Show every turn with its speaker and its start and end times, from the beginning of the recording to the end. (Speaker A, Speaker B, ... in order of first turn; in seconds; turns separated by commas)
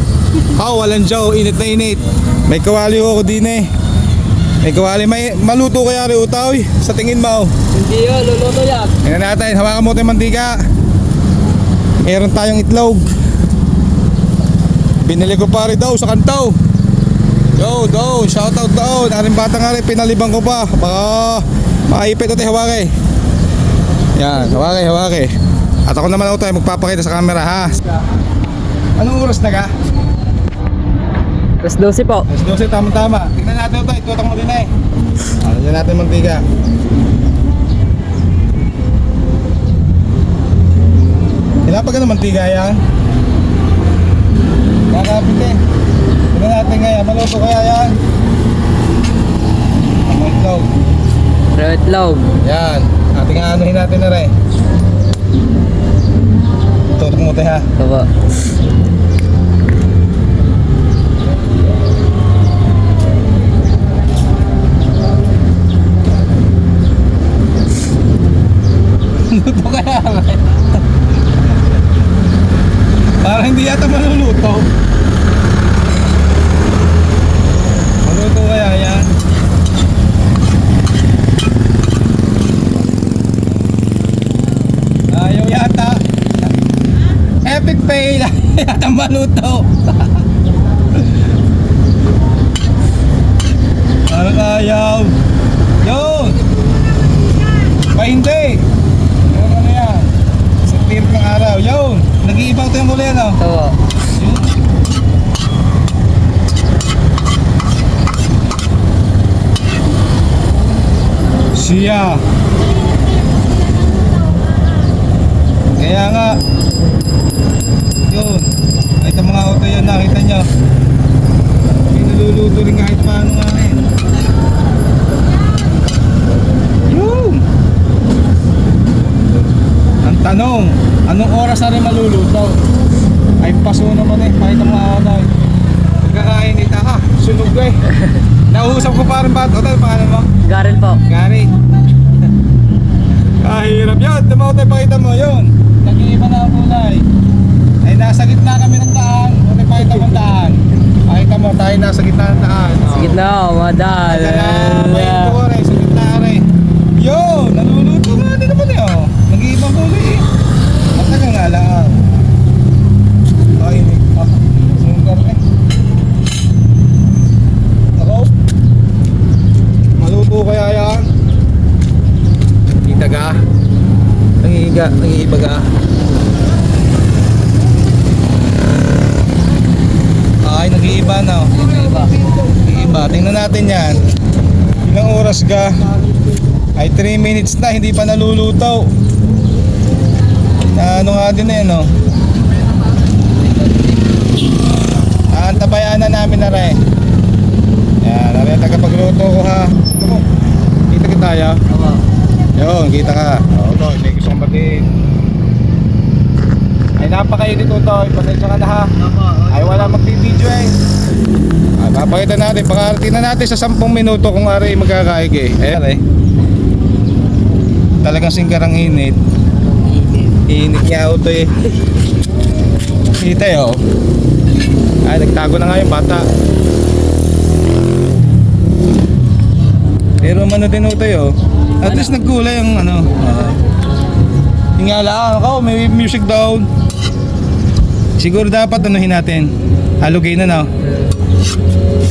Speaker A: 0.4-3.7, Speaker A: 4.6-7.5, Speaker B: 7.7-8.9, Speaker A: 9.0-10.6, Speaker A: 12.0-13.1, Speaker A: 15.0-16.6, Speaker A: 17.6-22.9, Speaker A: 24.2-25.3, Speaker A: 25.9-27.8, Speaker A: 29.0-29.7, Speaker B: 31.6-32.3, Speaker A: 32.3-34.7, Speaker A: 35.4-36.5, Speaker A: 41.6-42.8, Speaker A: 44.9-45.6, Speaker A: 46.3-48.0, Speaker A: 50.1-50.7, Speaker B: 51.6-52.4, Speaker A: 52.4-54.3, Speaker A: 57.0-57.7, Speaker B: 57.8-58.1, Speaker A: 69.2-70.7, Speaker A: 73.2-74.7, Speaker A: 78.0-79.1, Speaker A: 85.1-86.0, Speaker A: 87.4-89.7, Speaker A: 94.1-95.2, Speaker A: 95.8-96.4, Speaker A: 97.9-98.7, Speaker A: 99.3-103.4, Speaker B: 103.4-103.8, Speaker A: 104.2-104.5, Speaker A: 111.5-112.2, Speaker A: 115.8-116.4, Speaker A: 118.1-120.5, Speaker A: 121.9-123.9, Speaker A: 126.9-127.5, Speaker A: 130.0-132.6, Speaker A: 133.4-135.3, Speaker A: 136.0-137.9, Speaker A: 138.5-140.3, Speaker B: 140.4-141.0, Speaker A: 141.1-141.5, Speaker A: 143.4-147.1, Speaker A: 147.8-153.2, Speaker B: 152.9-155.4, Speaker A: 154.1-160.2, Speaker A: 160.9-162.0, Speaker A: 163.6-165.4, Speaker A: 168.0-168.3, Speaker A: 170.0-171.1, Speaker A: 172.8-173.4, Speaker A: 174.4-175.7, Speaker A: 180.4-181.8, Speaker A: 182.7-184.0, Speaker A: 184.8-185.8, Speaker A: 186.8-188.9, Speaker A: 190.7-191.9, Speaker A: 195.3-196.8, Speaker A: 198.0-200.3, Speaker A: 200.9-201.6, Speaker B: 201.7-202.0, Speaker A: 202.6-204.9, Speaker A: 207.0-208.9, Speaker B: 209.0-209.7, Speaker A: 209.5-210.7, Speaker A: 211.8-216.0, Speaker A: 218.0-219.2, Speaker B: 219.7-220.4, Speaker A: 220.5-221.6, Speaker A: 223.2-223.8, Speaker A: 225.0-226.3, Speaker A: 230.2-233.6, Speaker A: 234.8-236.7, Speaker A: 238.2-240.7